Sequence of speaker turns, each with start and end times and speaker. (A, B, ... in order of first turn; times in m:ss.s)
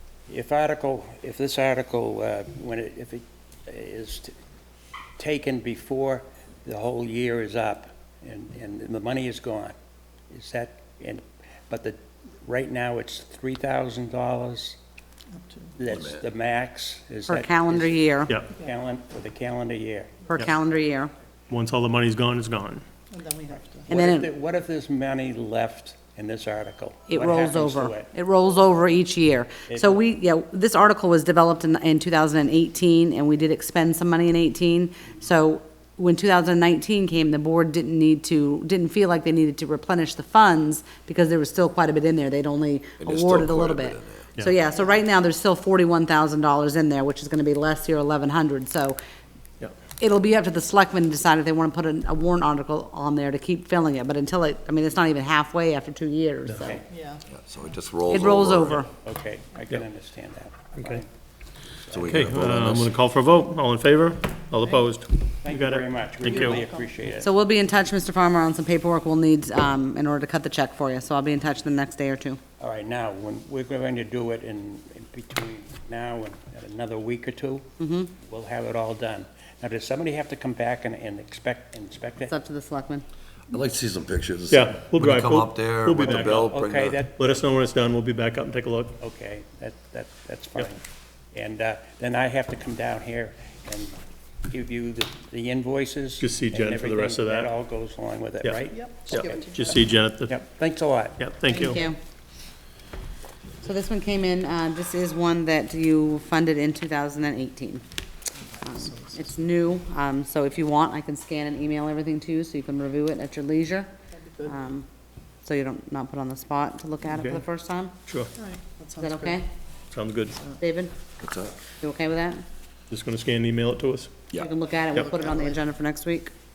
0:00.3-0:04.3 A
0:05.2-0:09.8 A
0:10.3-0:14.8 A
0:15.3-0:15.8 B
0:15.8-0:20.3 A
0:15.9-0:16.2 C
0:17.3-0:18.3 D
0:20.3-0:21.1 D
0:21.5-0:22.8 E
0:23.1-0:23.9 B
0:23.9-0:28.1 A
0:23.9-0:24.3 D
0:27.1-0:49.0 D
0:29.7-0:30.0 A
0:43.0-0:44.2 C
0:50.0-0:56.8 D
0:56.4-0:56.7 E
0:56.9-0:57.2 B
0:57.3-0:58.8 C
0:58.1-0:58.9 D
0:59.0-1:01.1 A
1:01.8-1:02.0 A
1:01.9-1:02.9 C
1:02.1-1:06.6 E
1:05.4-1:07.3 A
1:06.2-1:07.2 B
1:07.2-1:12.4 D
1:12.6-1:22.3 A
1:17.8-1:18.1 D
1:22.3-1:23.0 D
1:23.5-1:27.0 C
1:24.5-1:26.5 E
1:26.0-1:27.2 A
1:27.1-1:29.0 E
1:29.0-1:30.8 A
1:31.3-1:41.2 A
1:36.2-1:37.5 E
1:38.4-1:40.4 E
1:38.7-1:39.9 B
1:41.2-1:41.8 E
1:41.5-1:41.9 B
1:41.5-1:42.0 D
1:43.6-1:47.8 D
1:48.5-1:49.3 B
1:48.6-1:53.9 D
1:54.1-1:54.6 B
1:54.4-1:54.9 D
1:55.4-1:58.0 D
1:57.1-1:57.4 E
1:58.0-1:58.3 E
1:58.3-1:59.4 B
1:59.0-1:59.4 D
1:59.9-2:00.4 E
2:00.6-2:00.9 D
2:01.2-2:01.6 C
2:01.8-2:02.4 D
2:02.9-2:04.2 E
2:04.3-2:06.3 D
2:04.9-2:05.6 B